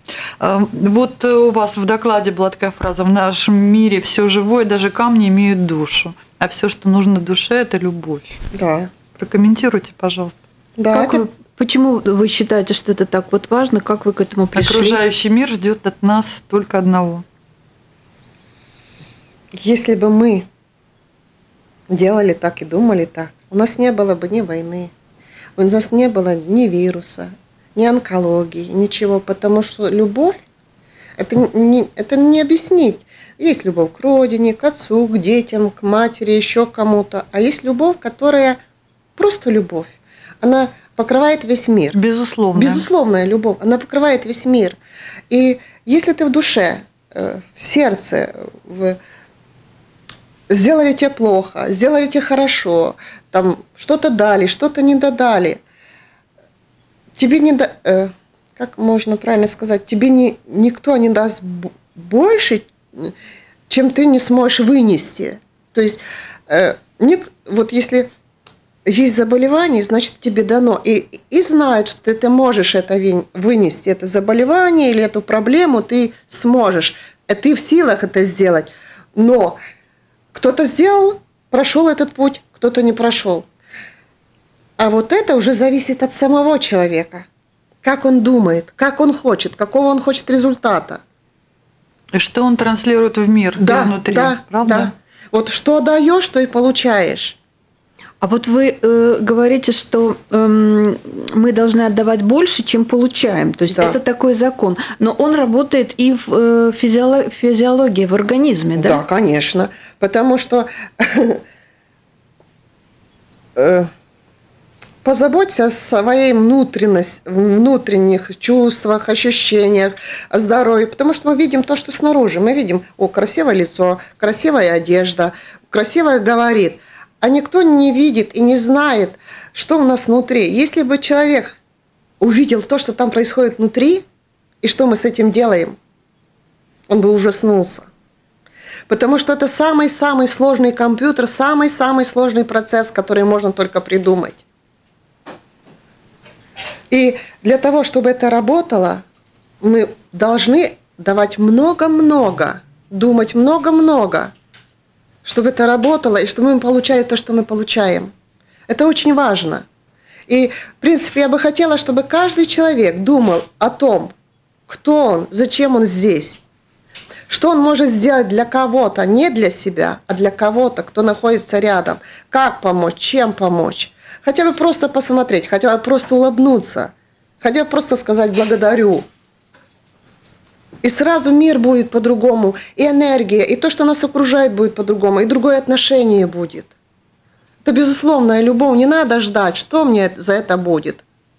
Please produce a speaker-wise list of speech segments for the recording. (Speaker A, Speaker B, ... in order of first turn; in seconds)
Speaker A: 0.4-8.4, 9.2-10.4, 14.6-17.2, 41.9-42.9, 92.1-94.9
Speaker B: 8.5-8.9, 10.8-11.3, 19.6-20.5, 21.9-24.9, 25.6-30.4, 31.2-38.6, 39.2-42.0, 42.5-44.8, 45.3-49.0, 50.5-55.6, 57.2-63.1, 63.7-68.1, 68.9-79.6, 80.3-83.5, 84.8-87.3, 87.8-91.0, 93.6-97.4, 103.7-104.0, 108.8-111.4, 113.5-113.9, 115.0-131.6, 132.2-134.0, 134.6-135.8, 136.9-137.9, 138.9-144.4, 146.9-149.0, 149.6-154.3, 155.2-158.1, 158.7-159.7, 160.3-164.1, 164.7-166.4, 167.3-179.1, 180.8-186.7, 187.6-191.0
Speaker C: 10.9-15.0, 98.2-109.0